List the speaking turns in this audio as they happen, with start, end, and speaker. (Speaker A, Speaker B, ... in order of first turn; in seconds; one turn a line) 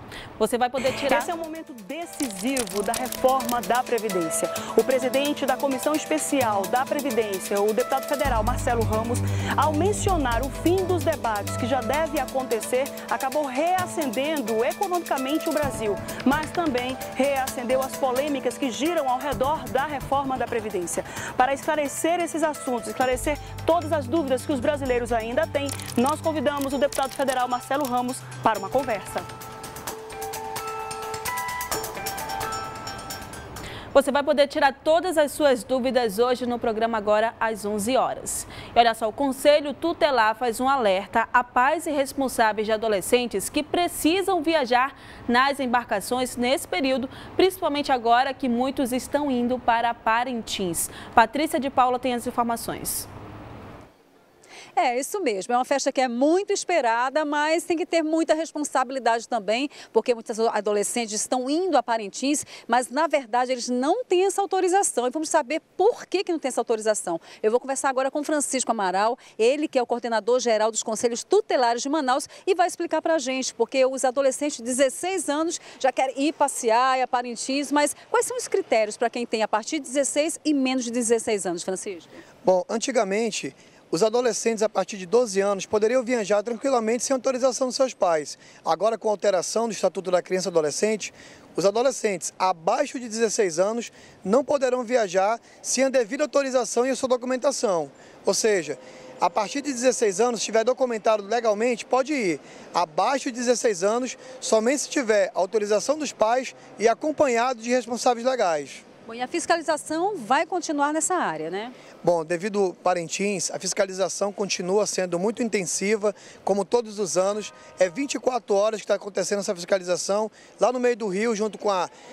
Speaker A: 0.4-1.3
Speaker B: 1.0-29.3
Speaker A: 33.9-53.1
Speaker C: 54.8-82.1
Speaker D: 82.4-108.8
Speaker C: 109.0-111.7
Speaker D: 112.0-121.9